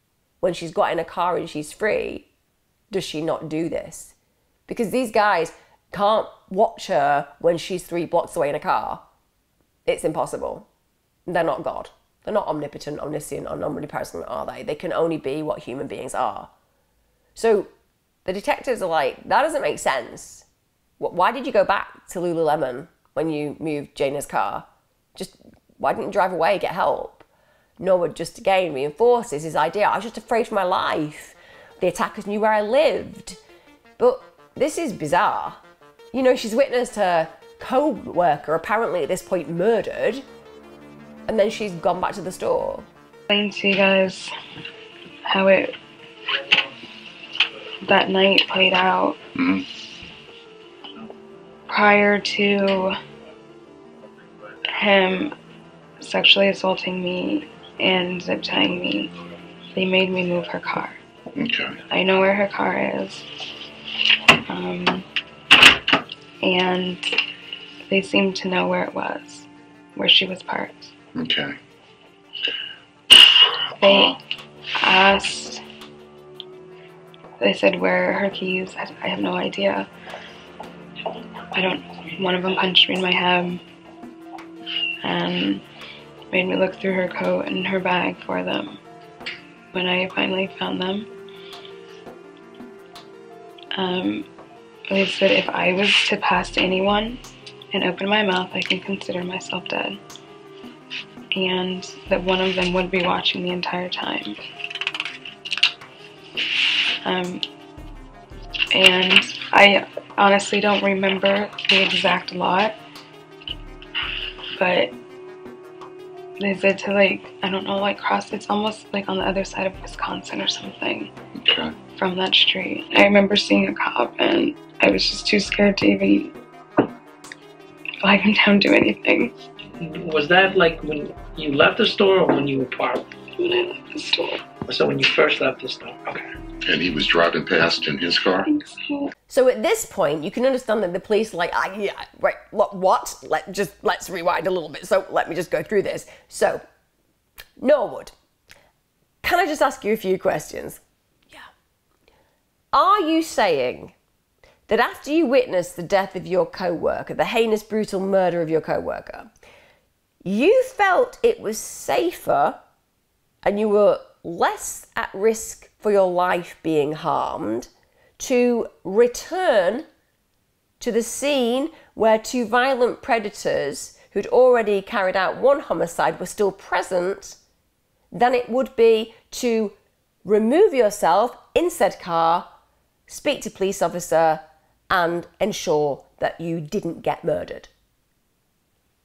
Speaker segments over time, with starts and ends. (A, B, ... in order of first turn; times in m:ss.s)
0:00.4-0:02.3 A
0:02.9-0:04.2 A
0:04.7-0:09.0 A
0:09.9-0:10.7 A
0:11.3-0:16.5 A
0:17.4-0:17.7 A
0:18.2-0:20.5 A
0:21.0-0:27.2 A
0:27.8-0:33.4 A
0:34.0-0:35.6 A
0:36.1-0:40.2 A
0:41.3-0:42.9 A
0:43.3-0:44.3 B
0:45.3-0:45.8 B
0:46.3-0:46.6 B
0:47.8-0:49.2 B
0:49.4-0:49.6 C
0:51.7-0:53.0 B
0:54.7-0:55.4 B
0:56.0-0:59.1 B
0:59.7-1:01.0 B
1:01.3-1:01.8 C
1:01.9-1:03.4 B
1:04.4-1:05.1 B
1:06.4-1:07.2 B
1:07.9-1:10.9 B
1:11.2-1:11.6 C
1:13.8-1:14.2 B
1:14.8-1:15.6 B
1:17.4-1:19.9 B
1:21.5-1:23.6 B
1:25.0-1:25.6 B
1:26.3-1:28.8 B
1:29.7-1:31.1 B
1:33.7-1:34.3 B
1:34.9-1:37.2 B
1:37.7-1:40.0 B
1:41.3-1:44.4 B
1:46.9-1:47.5 B
1:48.7-1:52.8 B
1:54.6-1:54.9 B
1:56.4-2:01.1 B
2:01.4-2:01.8 C
2:02.0-2:06.3 B
2:08.0-2:09.3 B
2:09.7-2:13.1 D
2:13.4-2:14.4 B
2:14.7-2:16.2 D
2:16.6-2:18.5 C
2:18.5-2:19.1 B
2:19.3-2:26.6 A
2:27.6-2:28.1 A
2:29.2-2:31.5 A
2:32.7-2:33.9 A
2:34.7-2:39.3 A
2:40.2-2:42.6 A
2:43.4-2:49.9 A
2:50.8-2:57.4 A
2:58.1-3:02.5 A
3:03.1-3:07.7 A